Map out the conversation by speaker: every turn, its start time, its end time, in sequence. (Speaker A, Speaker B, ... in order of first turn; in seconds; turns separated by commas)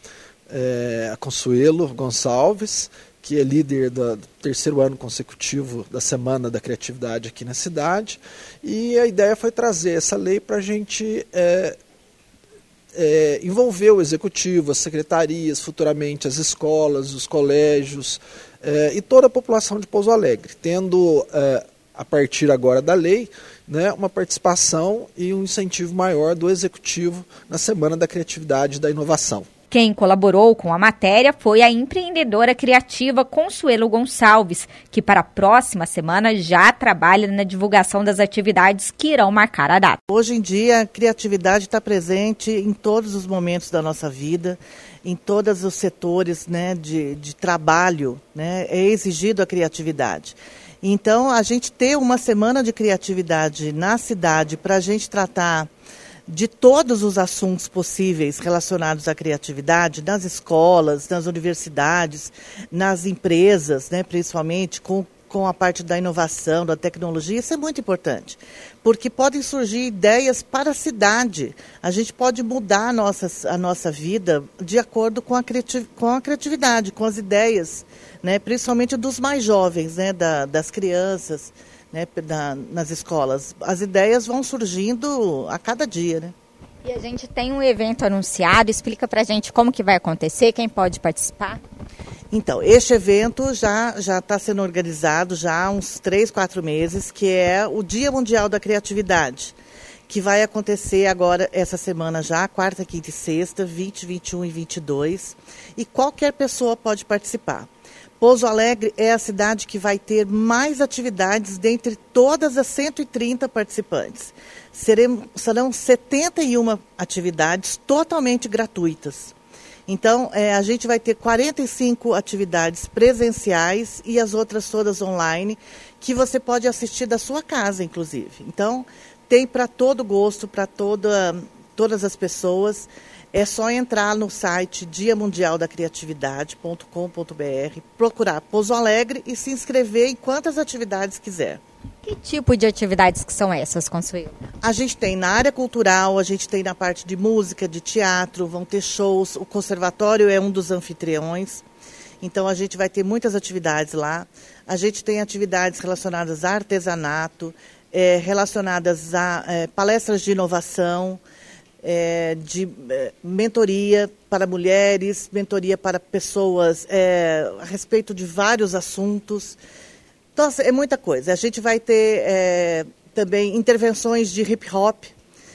Speaker A: 0.5-11.8, Speaker A: 12.9-29.5, Speaker B: 29.7-40.0, Speaker C: 40.1-55.7, Speaker C: 56.3-86.3, Speaker B: 86.8-91.6, Speaker C: 92.3-99.6, Speaker C: 100.1-107.7, Speaker C: 108.2-119.3, Speaker C: 119.9-141.6, Speaker B: 142.1-144.3, Speaker C: 144.6-151.6, Speaker C: 152.2-161.2, Speaker C: 161.8-169.6, Speaker C: 170.3-175.1